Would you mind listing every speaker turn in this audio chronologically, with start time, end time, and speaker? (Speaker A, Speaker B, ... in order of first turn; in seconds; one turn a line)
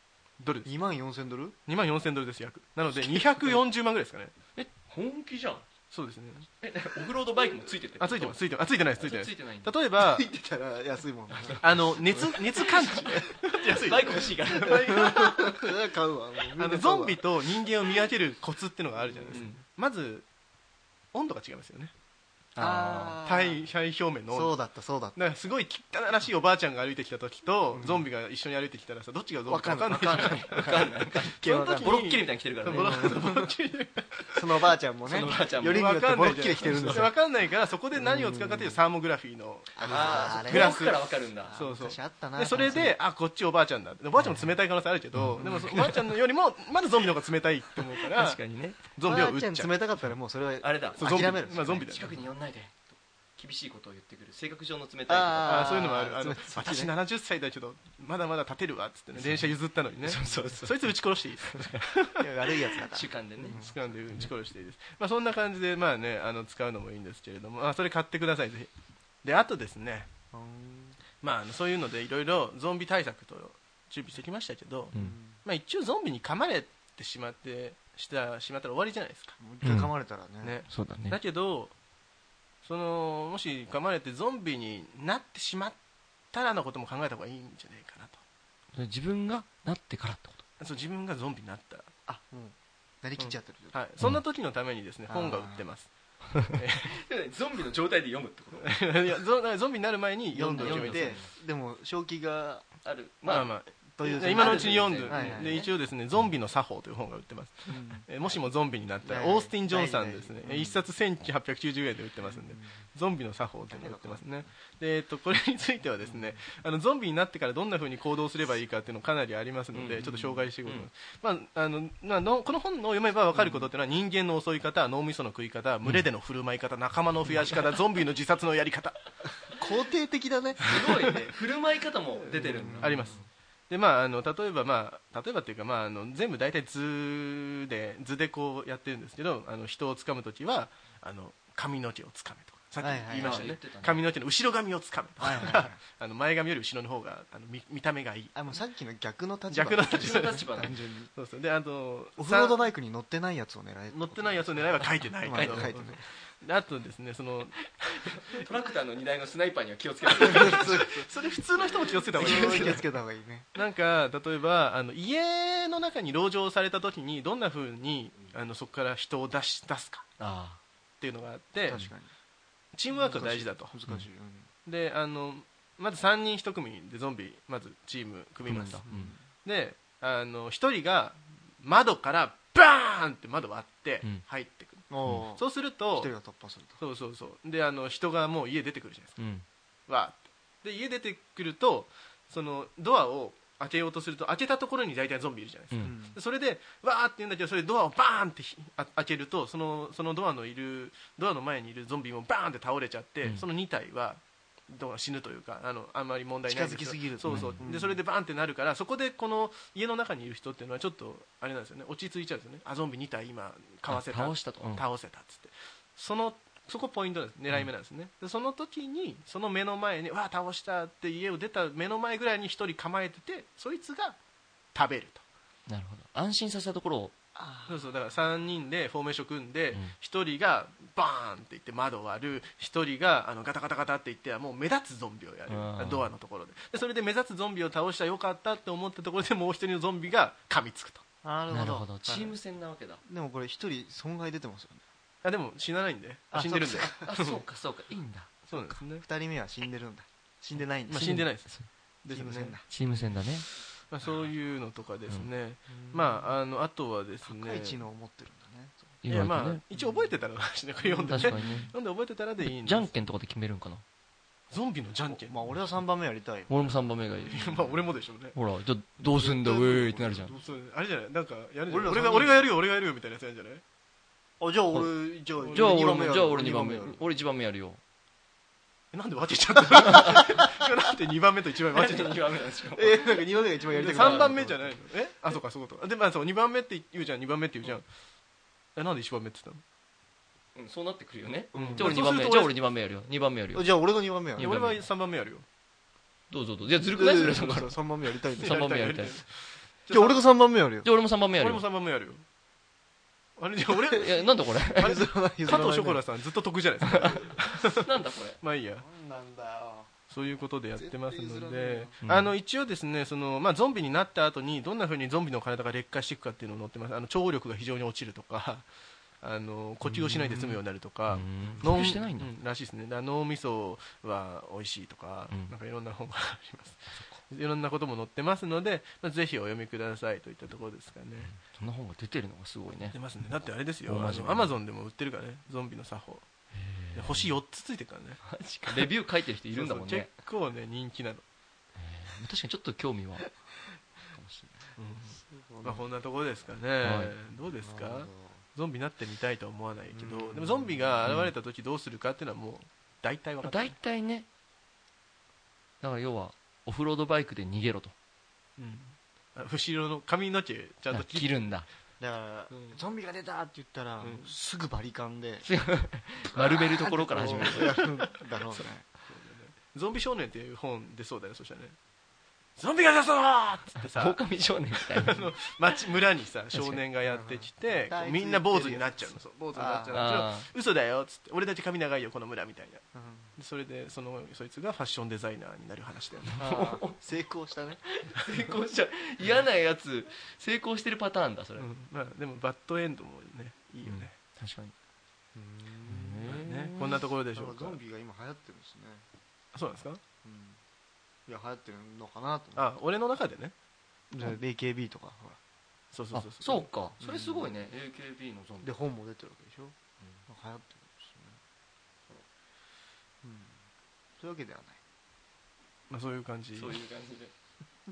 Speaker A: 0.4-0.7
Speaker B: 0.7-1.6
Speaker A: 1.7-4.3
Speaker C: 4.6-5.7
Speaker A: 5.9-6.5
Speaker C: 6.6-9.8
Speaker A: 8.0-10.3
Speaker B: 10.0-13.3
Speaker C: 11.3-11.6
Speaker A: 11.6-15.7
Speaker C: 12.2-15.4
Speaker B: 14.1-17.2
Speaker A: 16.6-20.3
Speaker B: 19.1-19.5
Speaker C: 19.3-19.6
Speaker A: 21.1-21.9
Speaker C: 22.6-23.2
Speaker B: 22.6-23.6
Speaker A: 23.2-24.6
Speaker B: 24.3-25.2
Speaker A: 25.2-34.4
Speaker B: 27.7-28.1
Speaker B: 29.5-32.0
Speaker C: 29.9-33.3
Speaker B: 32.7-33.5
Speaker B: 34.3-37.1
Speaker C: 35.1-37.1
Speaker A: 35.1-49.7
Speaker B: 38.0-38.8
Speaker B: 39.8-43.0
Speaker C: 39.8-41.6
Speaker C: 45.1-46.1
Speaker C: 47.8-48.8
Speaker B: 49.0-52.2
Speaker C: 50.6-55.8
Speaker A: 51.0-52.2
Speaker B: 55.1-56.9
Speaker A: 55.4-62.2
Speaker C: 59.2-59.5
Speaker C: 60.0-61.9
Speaker B: 60.2-60.5
Speaker B: 62.2-63.8
Speaker C: 62.6-63.6
Speaker A: 63.5-68.7
Speaker A: 69.2-70.1
Speaker B: 70.3-71.0
Speaker A: 71.2-79.4
Speaker B: 74.9-75.4
Speaker B: 79.4-80.6
Speaker C: 79.6-79.9
Speaker A: 80.4-81.8
Speaker C: 80.7-81.2
Speaker A: 82.6-85.8
Speaker A: 86.3-88.2
Speaker C: 88.7-90.4
Speaker A: 90.6-91.9
Speaker B: 92.1-93.8
Speaker A: 93.2-97.0
Speaker B: 95.1-95.7
Speaker C: 96.8-98.8
Speaker A: 98.6-101.2
Speaker B: 100.3-102.7
Speaker C: 100.6-101.3
Speaker C: 102.8-105.7
Speaker A: 103.3-129.1
Speaker B: 104.0-105.6
Speaker B: 107.7-108.1
Speaker B: 109.0-110.8
Speaker B: 112.3-112.8
Speaker B: 113.7-114.5
Speaker B: 116.0-116.4
Speaker C: 119.7-120.1
Speaker B: 120.0-120.5
Speaker B: 129.6-130.9
Speaker C: 130.6-133.2
Speaker A: 130.7-131.2
Speaker A: 132.2-148.3
Speaker B: 132.3-133.2
Speaker B: 142.8-143.5
Speaker C: 143.1-144.0
Speaker B: 145.2-145.8
Speaker B: 148.3-151.1
Speaker A: 149.5-150.5
Speaker C: 149.9-150.8
Speaker A: 151.2-152.6
Speaker B: 152.2-156.0
Speaker A: 153.9-158.4
Speaker C: 155.3-155.7
Speaker C: 158.0-160.9
Speaker B: 160.2-161.1
Speaker A: 160.2-162.8
Speaker C: 162.1-162.8
Speaker B: 162.1-163.5
Speaker A: 163.5-170.1
Speaker C: 170.2-170.6
Speaker A: 171.0-171.8
Speaker B: 171.7-172.1
Speaker A: 172.7-173.8
Speaker B: 172.9-174.5
Speaker A: 174.7-178.9
Speaker C: 178.4-179.1
Speaker B: 178.9-179.2
Speaker A: 179.4-186.1
Speaker B: 184.9-186.8
Speaker A: 186.8-189.2
Speaker C: 189.2-189.4
Speaker A: 189.9-224.2
Speaker B: 195.8-196.2
Speaker B: 206.5-208.0
Speaker C: 207.2-207.6
Speaker C: 213.9-214.8
Speaker A: 224.7-225.2
Speaker C: 225.7-227.1
Speaker B: 227.3-227.9
Speaker A: 227.7-241.0
Speaker C: 235.5-236.1
Speaker B: 241.2-242.4
Speaker C: 241.5-243.0
Speaker B: 243.0-244.8
Speaker A: 245.2-247.4
Speaker B: 246.3-247.1
Speaker C: 246.9-248.3
Speaker A: 248.5-249.1
Speaker B: 249.0-251.3
Speaker A: 250.9-251.5
Speaker C: 250.9-251.7
Speaker A: 252.0-252.6
Speaker B: 252.1-253.1
Speaker C: 252.7-253.5
Speaker A: 253.9-257.9
Speaker B: 255.7-256.4
Speaker B: 257.2-259.0
Speaker C: 259.0-259.6
Speaker A: 259.1-262.9
Speaker B: 259.7-260.0
Speaker C: 260.9-261.8
Speaker B: 261.1-261.7
Speaker C: 262.4-263.8
Speaker A: 264.5-265.4
Speaker B: 265.1-267.9
Speaker C: 266.5-267.5
Speaker A: 267.3-268.4
Speaker C: 268.3-270.4
Speaker B: 269.0-270.5
Speaker A: 270.3-273.6
Speaker B: 271.7-272.3
Speaker B: 274.4-277.1
Speaker A: 275.4-276.1
Speaker C: 275.5-277.8
Speaker A: 278.9-282.2
Speaker B: 279.8-280.4
Speaker C: 280.0-280.2
Speaker C: 281.7-284.3
Speaker B: 282.8-284.8
Speaker A: 283.7-287.9
Speaker A: 288.8-289.6
Speaker C: 290.6-293.7
Speaker B: 291.5-291.9
Speaker A: 291.6-292.5
Speaker B: 293.5-294.6
Speaker C: 294.4-294.9
Speaker A: 294.4-295.4
Speaker C: 296.3-297.8
Speaker B: 296.9-298.7
Speaker C: 298.4-299.2
Speaker A: 298.4-300.2
Speaker B: 299.9-300.9
Speaker C: 300.8-301.6
Speaker A: 301.3-302.2
Speaker A: 303.4-304.3
Speaker C: 303.9-305.0
Speaker B: 304.7-306.0
Speaker A: 304.8-307.9
Speaker C: 306.9-308.4
Speaker A: 308.4-308.9
Speaker B: 308.8-309.9
Speaker A: 310.1-318.7
Speaker B: 310.8-312.0
Speaker C: 312.1-312.3
Speaker A: 319.2-331.3
Speaker B: 319.8-320.6
Speaker C: 321.1-322.3
Speaker B: 321.5-322.0
Speaker C: 331.2-333.0
Speaker A: 332.9-336.3
Speaker C: 333.9-334.6
Speaker C: 336.5-337.4
Speaker A: 336.9-338.9
Speaker C: 338.2-340.1
Speaker A: 339.5-341.2
Speaker C: 341.8-343.4
Speaker C: 344.1-344.6
Speaker A: 344.8-353.7
Speaker B: 345.2-345.9
Speaker C: 346.8-347.1
Speaker B: 347.6-348.4
Speaker B: 349.9-351.0
Speaker C: 351.1-351.3
Speaker C: 353.4-354.3
Speaker C: 355.8-357.9
Speaker A: 358.6-361.4
Speaker C: 360.9-361.7
Speaker B: 362.0-365.5
Speaker A: 362.5-362.8
Speaker A: 364.0-364.3
Speaker C: 365.4-368.0
Speaker B: 366.3-368.9
Speaker A: 367.2-367.9
Speaker A: 369.1-371.8
Speaker A: 372.6-374.2
Speaker C: 373.8-375.3
Speaker A: 374.9-382.8
Speaker C: 376.5-376.8
Speaker B: 377.1-380.1
Speaker C: 379.9-380.5
Speaker B: 382.9-383.4
Speaker A: 383.4-386.4
Speaker C: 386.3-387.0
Speaker B: 386.4-387.8
Speaker C: 387.9-391.7
Speaker A: 391.6-394.1
Speaker C: 393.9-394.7
Speaker B: 395.4-396.5
Speaker C: 395.9-397.0
Speaker A: 396.3-397.8
Speaker B: 397.3-399.1
Speaker A: 399.5-400.0
Speaker B: 400.2-400.6
Speaker B: 401.3-402.7
Speaker A: 402.6-403.5
Speaker B: 404.1-405.4
Speaker A: 405.9-406.7
Speaker C: 406.1-408.7
Speaker B: 407.0-407.5
Speaker B: 408.6-409.8
Speaker B: 410.3-411.4
Speaker B: 413.2-413.6
Speaker B: 414.2-414.8
Speaker A: 415.9-416.8
Speaker C: 416.6-417.3